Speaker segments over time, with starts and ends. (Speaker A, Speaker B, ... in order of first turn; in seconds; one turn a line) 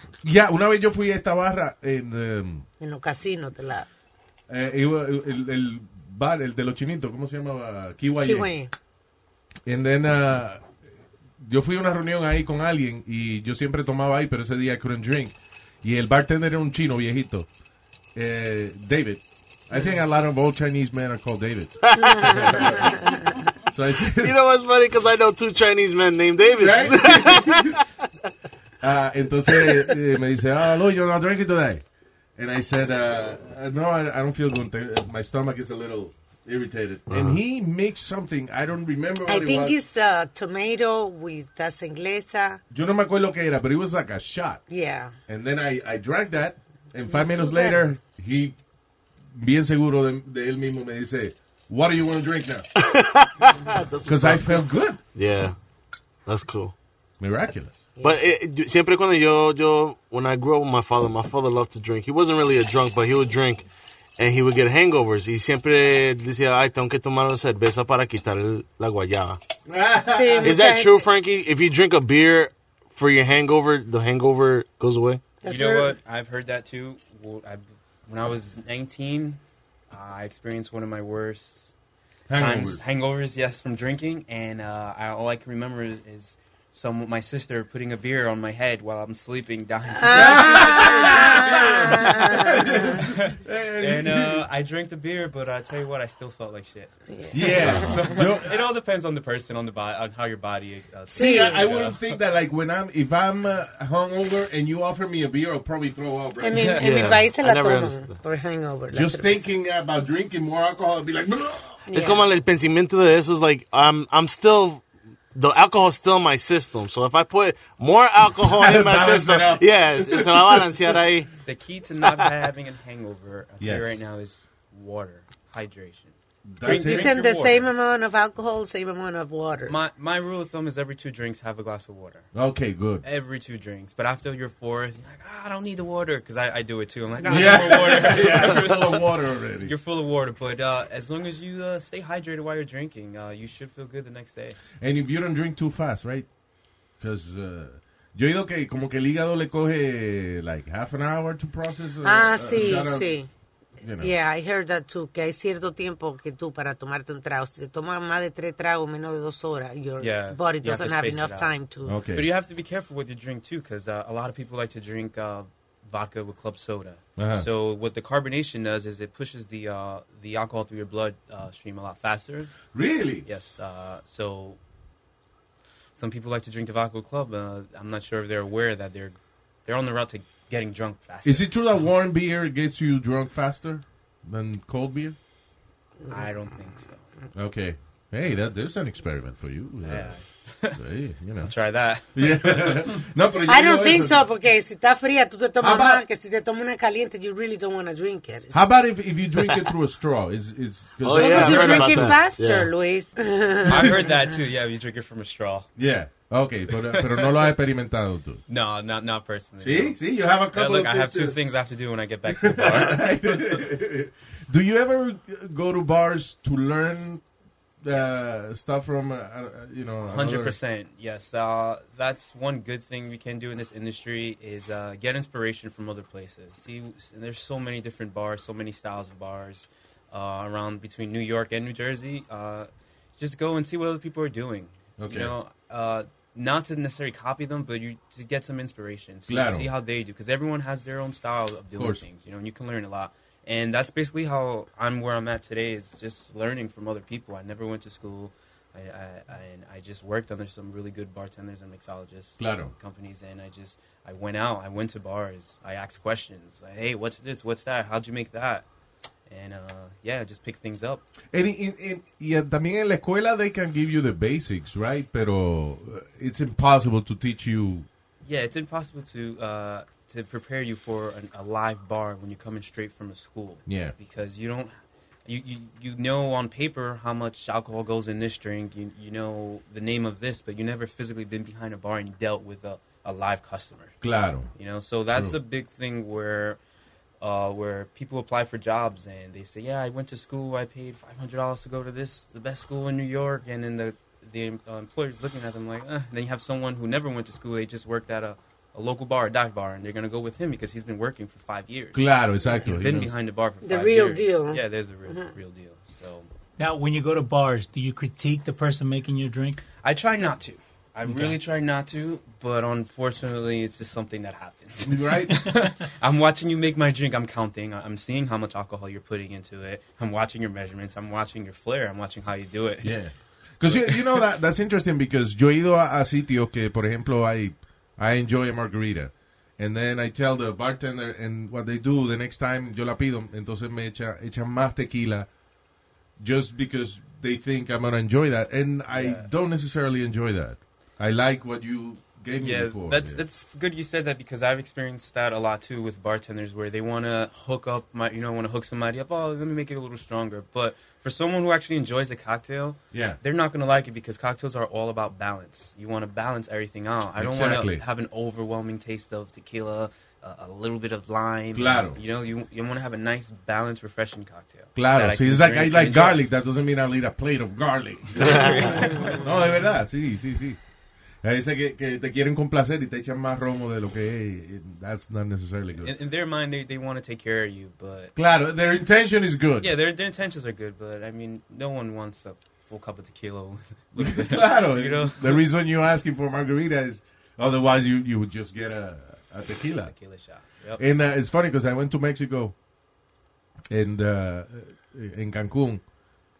Speaker A: 0.2-2.6
Speaker B: 2.8-3.9
Speaker A: 4.5-8.5
Speaker B: 8.2-8.7
Speaker A: 9.7-10.7
Speaker A: 11.4-17.5
Speaker A: 18.1-23.1
Speaker C: 21.8-22.6
Speaker A: 23.7-24.3
Speaker C: 24.2-27.8
Speaker A: 26.6-27.8
Speaker A: 28.8-31.8
Speaker A: 32.4-39.8
Speaker C: 37.1-37.4
Speaker B: 39.3-42.6
Speaker A: 42.7-44.6
Speaker B: 44.7-45.1
Speaker A: 45.3-48.6
Speaker B: 47.1-47.8
Speaker A: 49.3-52.6
Speaker C: 52.8-54.6
Speaker A: 54.0-55.0
Speaker C: 55.1-55.5
Speaker C: 56.2-56.7
Speaker A: 57.2-57.8
Speaker C: 58.0-63.6
Speaker C: 64.2-69.4
Speaker A: 69.7-70.6
Speaker B: 70.0-71.0
Speaker C: 70.4-75.2
Speaker B: 75.4-76.0
Speaker D: 75.5-81.7
Speaker A: 82.3-82.8
Speaker D: 82.3-91.6
Speaker B: 90.0-92.6
Speaker A: 90.0-94.5
Speaker D: 92.6-102.2
Speaker B: 97.1-98.2
Speaker A: 97.3-98.6
Speaker A: 101.1-107.1
Speaker B: 101.1-101.6
Speaker B: 106.4-109.5
Speaker D: 106.5-106.8
Speaker C: 106.8-108.2
Speaker A: 108.9-111.8
Speaker B: 111.9-112.3
Speaker C: 111.9-121.3
Speaker A: 118.4-121.0
Speaker D: 121.4-127.7
Speaker A: 123.6-124.0
Speaker A: 126.5-127.2
Speaker B: 126.6-129.8
Speaker D: 129.7-132.3
Speaker A: 132.3-133.0
Speaker D: 133.0-139.0
Speaker A: 137.2-139.7
Speaker D: 139.6-144.6
Speaker A: 144.8-146.3
Speaker A: 147.0-153.2
Speaker B: 152.0-153.3
Speaker A: 153.8-154.1
Speaker B: 154.0-161.9
Speaker D: 160.0-161.5
Speaker A: 161.8-162.3
Speaker D: 162.1-172.5
Speaker A: 167.2-167.4
Speaker A: 172.7-173.3
Speaker D: 173.2-174.6
Speaker D: 175.9-181.5
Speaker A: 181.2-185.2
Speaker D: 186.1-187.1
Speaker A: 187.3-190.2
Speaker D: 189.8-190.8
Speaker A: 190.7-191.5
Speaker D: 191.4-192.9
Speaker A: 192.1-194.3
Speaker B: 193.5-198.7
Speaker A: 195.6-196.0
Speaker A: 198.5-202.2
Speaker C: 201.0-202.7
Speaker B: 201.1-204.1
Speaker D: 203.6-205.7
Speaker A: 205.8-208.4
Speaker D: 206.9-207.5
Speaker D: 208.5-210.0
Speaker A: 209.6-211.4
Speaker D: 210.5-213.6
Speaker A: 212.3-217.2
Speaker A: 217.8-220.6
Speaker D: 220.1-258.6
Speaker A: 235.0-235.3
Speaker A: 239.3-239.7
Speaker A: 241.7-242.0
Speaker A: 252.4-252.7
Speaker D: 259.3-261.0
Speaker A: 261.3-267.9
Speaker D: 268.2-284.0
Speaker A: 273.6-273.9
Speaker A: 284.0-284.5
Speaker D: 284.5-286.6
Speaker D: 287.2-306.3
Speaker A: 301.9-303.1
Speaker B: 303.6-305.3
Speaker E: 306.6-309.6
Speaker D: 309.8-323.0
Speaker A: 314.8-315.4
Speaker A: 322.8-335.3
Speaker D: 323.6-324.2
Speaker A: 336.2-343.2
Speaker D: 338.9-339.3
Speaker D: 342.3-366.2
Speaker A: 352.9-353.2
Speaker A: 357.1-357.8
Speaker A: 361.5-362.0
Speaker A: 364.8-370.6
Speaker D: 368.1-369.3
Speaker A: 371.2-375.9
Speaker D: 375.8-378.1
Speaker A: 378.1-379.7
Speaker D: 379.6-385.4
Speaker A: 384.0-389.9
Speaker D: 389.8-390.8
Speaker A: 390.8-392.5
Speaker A: 393.7-395.8